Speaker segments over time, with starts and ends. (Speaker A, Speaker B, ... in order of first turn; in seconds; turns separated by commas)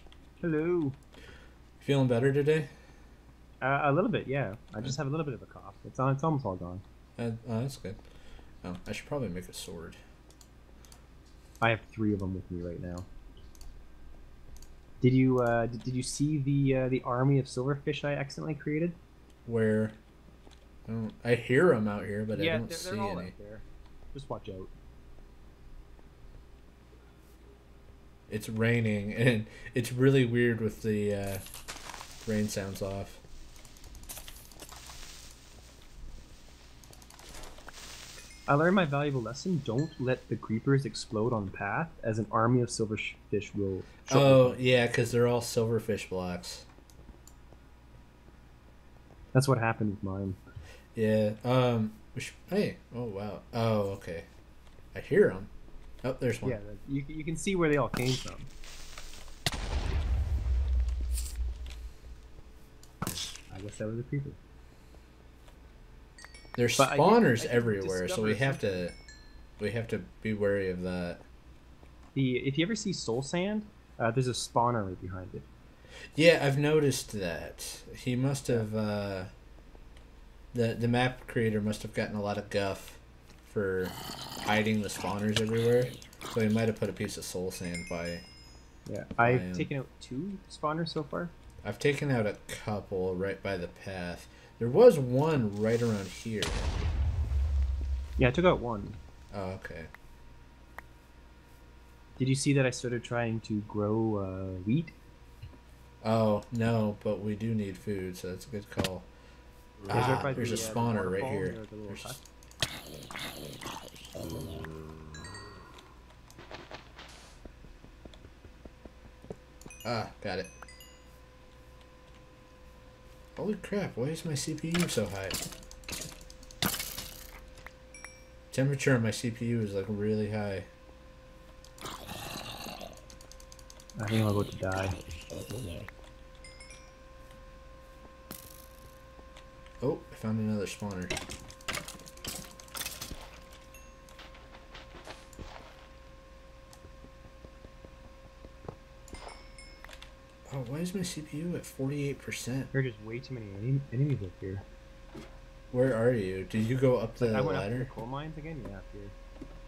Speaker A: 0.4-1.0, Speaker B: 1.8-2.7, Speaker A: 3.6-6.8, Speaker B: 7.2-8.0, Speaker B: 8.6-10.0, Speaker A: 11.6-13.1, Speaker A: 15.0-19.0, Speaker B: 19.4-20.0, Speaker B: 20.9-23.3, Speaker A: 22.3-24.7, Speaker B: 28.3-31.4, Speaker B: 32.2-33.2, Speaker A: 38.5-44.6, Speaker B: 44.1-46.6, Speaker A: 49.3-50.4, Speaker B: 51.0-54.3, Speaker B: 54.9-55.5, Speaker B: 56.0-56.6, Speaker A: 56.4-58.5, Speaker A: 63.5-64.4, Speaker B: 66.5-68.9, Speaker A: 66.8-68.8, Speaker B: 69.6-71.2, Speaker A: 72.1-75.5, Speaker B: 76.2-79.3, Speaker B: 80.5-88.2, Speaker A: 88.8-91.3, Speaker B: 89.2-89.7, Speaker B: 91.6-96.7, Speaker A: 98.2-99.0, Speaker B: 99.3-99.9, Speaker A: 102.2-105.0, Speaker B: 106.0-109.1, Speaker B: 109.9-112.2, Speaker A: 109.9-112.2, Speaker B: 119.8-120.5, Speaker B: 123.3-125.4, Speaker B: 128.5-130.7, Speaker A: 134.0-135.0, Speaker B: 139.8-141.2, Speaker B: 150.5-152.7, Speaker A: 152.7-154.6, Speaker B: 155.7-157.9, Speaker A: 157.2-159.1